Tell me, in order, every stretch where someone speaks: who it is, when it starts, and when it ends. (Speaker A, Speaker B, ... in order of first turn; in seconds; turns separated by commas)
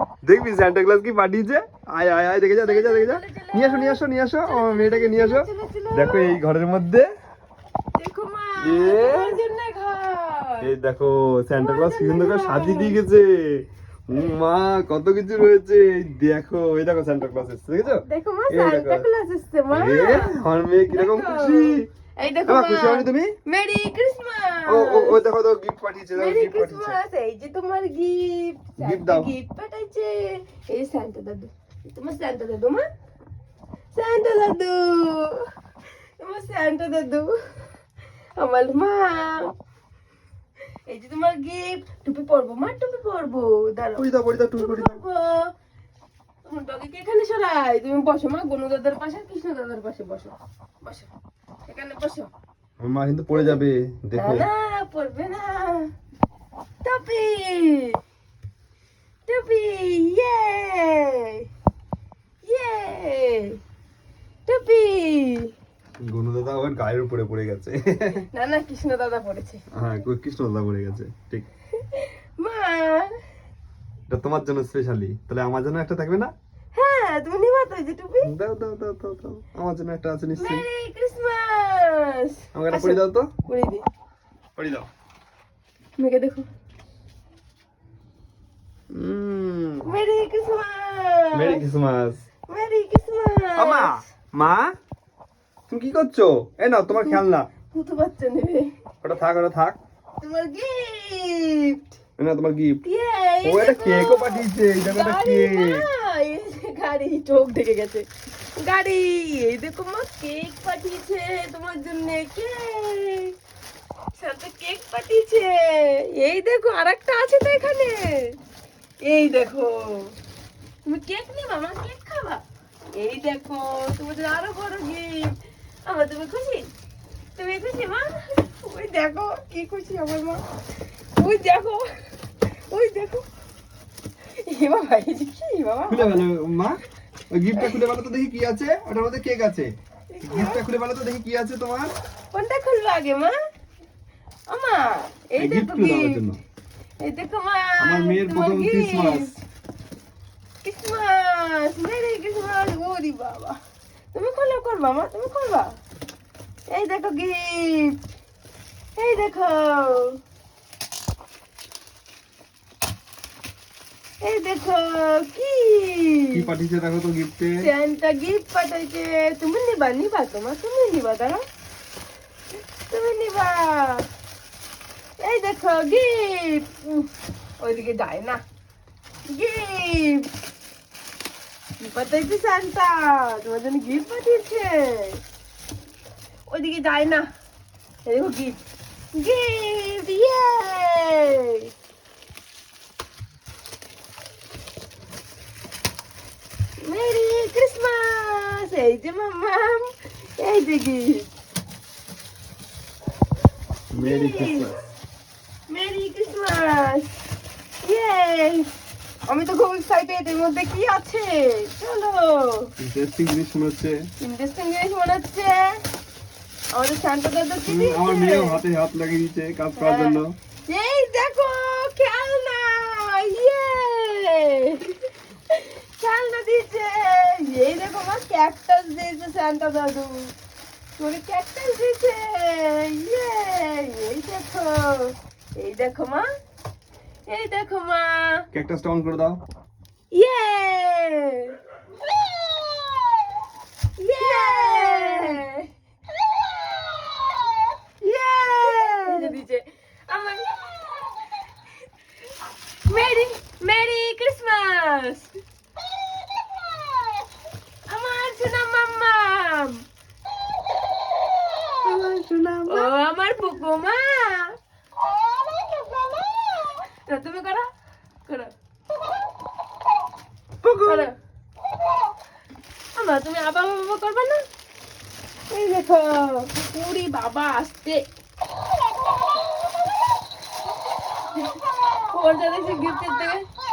Speaker A: 0.2-7.1, Speaker B: 2.6-6.4, Speaker B: 8.0-10.7, Speaker A: 8.6-9.4, Speaker A: 10.6-19.1, Speaker B: 11.6-13.0, Speaker B: 18.1-20.4, Speaker A: 19.7-21.9, Speaker B: 20.9-25.2, Speaker A: 22.5-23.4, Speaker A: 24.7-27.0, Speaker B: 26.1-32.9, Speaker A: 28.8-29.3, Speaker B: 33.9-35.5, Speaker B: 36.2-37.3, Speaker B: 38.4-39.5, Speaker B: 40.9-45.5, Speaker A: 44.0-45.0, Speaker B: 46.5-51.1, Speaker B: 51.7-52.3, Speaker A: 52.8-54.5, Speaker B: 53.4-53.6, Speaker B: 54.2-55.9, Speaker B: 56.8-58.0, Speaker B: 59.3-61.5, Speaker B: 62.4-63.6, Speaker B: 64.5-65.5, Speaker A: 66.0-68.3, Speaker B: 68.3-69.6, Speaker A: 69.7-71.5, Speaker B: 71.8-73.2, Speaker A: 74.1-76.3, Speaker B: 76.7-78.3, Speaker A: 78.2-80.7, Speaker B: 80.4-83.9, Speaker A: 82.5-83.3, Speaker A: 84.6-84.9, Speaker B: 86.0-86.5, Speaker A: 88.9-89.9, Speaker B: 89.8-91.7, Speaker A: 91.3-92.2, Speaker B: 92.5-94.0, Speaker A: 93.6-94.8, Speaker A: 95.7-97.5, Speaker B: 96.9-98.8, Speaker A: 99.0-99.8, Speaker B: 100.2-101.9, Speaker A: 102.2-102.8, Speaker B: 102.8-113.3, Speaker A: 103.5-105.8, Speaker B: 114.1-118.4, Speaker B: 119.0-120.2, Speaker B: 120.8-122.4, Speaker B: 123.0-126.7, Speaker B: 127.4-130.4, Speaker B: 131.2-132.1, Speaker B: 132.7-133.3, Speaker B: 134.4-136.2, Speaker A: 135.9-141.9, Speaker B: 137.6-137.9, Speaker B: 140.1-140.6, Speaker B: 142.3-143.4, Speaker B: 144.5-146.2, Speaker A: 145.4-146.4, Speaker B: 147.0-149.4, Speaker A: 147.8-149.4, Speaker B: 150.6-153.6, Speaker B: 154.1-155.8, Speaker B: 156.7-158.0, Speaker B: 159.0-160.2, Speaker B: 164.2-166.4, Speaker A: 166.3-167.7, Speaker B: 167.6-171.4, Speaker B: 172.9-174.1, Speaker B: 175.2-177.1, Speaker B: 177.6-178.4, Speaker B: 179.3-180.3, Speaker B: 181.8-185.2, Speaker B: 186.5-187.3, Speaker B: 188.1-188.6, Speaker B: 189.1-191.7, Speaker B: 196.8-201.3, Speaker A: 203.9-204.9, Speaker B: 203.9-204.7, Speaker B: 205.7-207.2, Speaker B: 207.8-208.7, Speaker B: 209.3-212.7, Speaker A: 212.8-214.1, Speaker B: 214.2-215.8, Speaker B: 216.7-218.6, Speaker A: 217.7-220.4, Speaker B: 219.8-230.3, Speaker B: 231.0-236.3, Speaker B: 237.3-238.5, Speaker A: 238.5-239.4, Speaker B: 240.1-241.6, Speaker B: 242.3-242.7, Speaker B: 244.0-245.7, Speaker B: 248.0-250.7, Speaker B: 252.9-255.3, Speaker B: 257.9-259.8, Speaker A: 261.8-262.9, Speaker B: 262.7-264.6, Speaker B: 266.1-267.7, Speaker B: 268.3-268.5, Speaker A: 270.6-271.1, Speaker B: 270.9-271.1, Speaker B: 273.0-274.4, Speaker B: 275.5-278.1, Speaker B: 281.4-283.5